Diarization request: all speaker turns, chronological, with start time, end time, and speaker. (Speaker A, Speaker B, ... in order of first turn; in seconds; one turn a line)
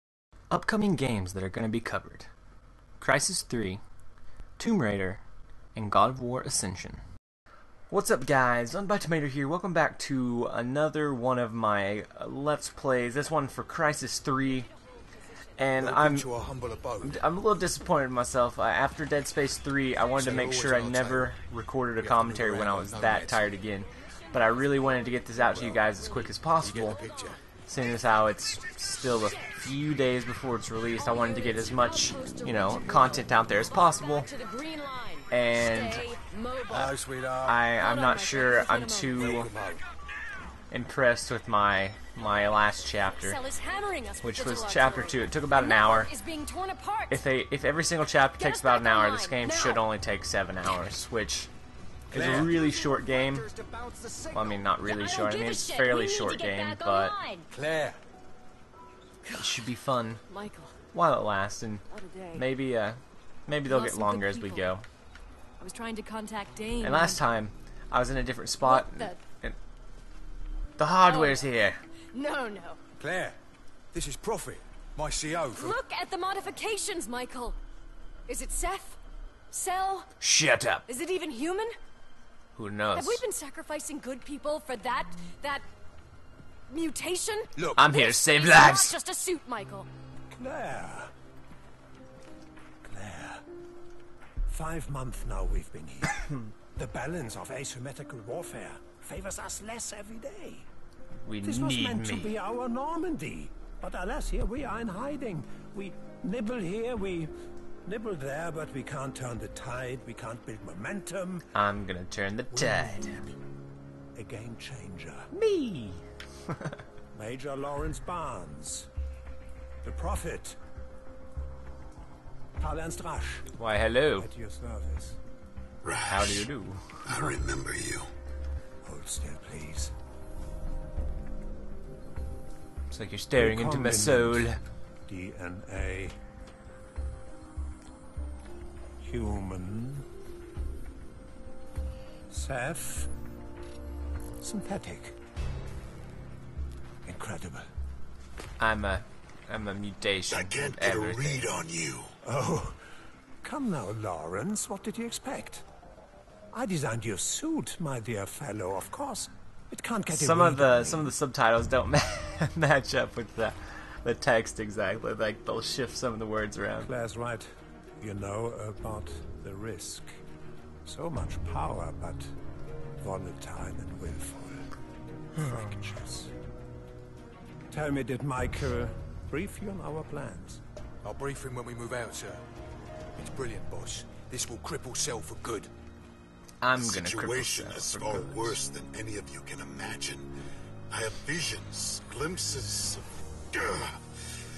Speaker A: 0.5-2.3
Speaker A: 3.0-3.8
Speaker A: 4.6-5.2
Speaker A: 5.7-7.0
Speaker A: 7.9-14.7
Speaker A: 15.6-16.3
Speaker B: 15.8-17.2
Speaker A: 17.0-27.0
Speaker B: 20.1-21.3
Speaker B: 22.0-23.4
Speaker C: 24.0-27.4
Speaker B: 25.4-27.4
Speaker A: 27.7-34.3
Speaker C: 29.1-29.6
Speaker C: 30.9-36.9
Speaker A: 35.3-36.0
Speaker B: 36.7-37.6
Speaker A: 37.4-39.5
Speaker C: 37.8-39.4
Speaker B: 39.1-39.9
Speaker A: 40.7-43.4
Speaker C: 43.1-47.2
Speaker A: 44.2-46.1
Speaker A: 47.1-51.5
Speaker C: 48.4-49.8
Speaker A: 52.1-53.5
Speaker B: 52.1-54.7
Speaker A: 54.3-57.1
Speaker C: 54.8-57.5
Speaker B: 57.5-58.0
Speaker C: 59.2-59.6
Speaker A: 59.4-60.2
Speaker C: 60.3-60.7
Speaker A: 60.9-64.8
Speaker C: 61.9-62.4
Speaker C: 63.6-64.7
Speaker C: 65.6-67.2
Speaker A: 66.8-69.6
Speaker C: 68.6-69.2
Speaker A: 70.8-71.8
Speaker C: 71.0-71.5
Speaker C: 72.1-72.8
Speaker B: 73.0-73.4
Speaker B: 73.9-75.8
Speaker C: 75.5-77.6
Speaker C: 78.3-79.0
Speaker C: 79.5-80.1
Speaker A: 80.2-80.8
Speaker C: 80.9-81.7
Speaker A: 82.5-83.2
Speaker C: 82.9-85.7
Speaker C: 86.7-89.9
Speaker B: 87.6-87.9
Speaker A: 87.8-89.0
Speaker D: 90.3-91.1
Speaker D: 92.8-93.4
Speaker D: 94.5-100.7
Speaker A: 101.2-102.3
Speaker D: 101.4-107.3
Speaker D: 107.8-111.5
Speaker A: 111.5-113.3
Speaker B: 112.5-113.3
Speaker D: 114.1-115.3
Speaker A: 115.3-116.0
Speaker D: 117.1-118.9
Speaker D: 119.8-120.6
Speaker D: 122.6-123.5
Speaker A: 123.6-124.3
Speaker D: 124.2-125.2
Speaker E: 125.8-126.5
Speaker A: 126.1-127.3
Speaker E: 127.0-128.1
Speaker D: 128.8-129.9
Speaker A: 132.9-134.6
Speaker D: 133.4-134.5
Speaker D: 135.1-136.2
Speaker D: 139.0-140.1
Speaker D: 142.3-143.1
Speaker D: 144.4-145.2
Speaker D: 147.0-147.6
Speaker A: 148.6-151.5
Speaker E: 150.3-152.1
Speaker D: 152.2-152.8
Speaker D: 153.4-155.6
Speaker D: 156.5-161.1
Speaker A: 160.1-166.9
Speaker D: 166.8-170.2
Speaker D: 170.8-172.3
Speaker D: 173.0-174.7
Speaker D: 175.3-176.3
Speaker D: 177.7-180.6
Speaker B: 181.0-182.4
Speaker B: 183.2-185.7
Speaker A: 186.6-188.6
Speaker E: 186.8-190.3
Speaker E: 190.9-194.0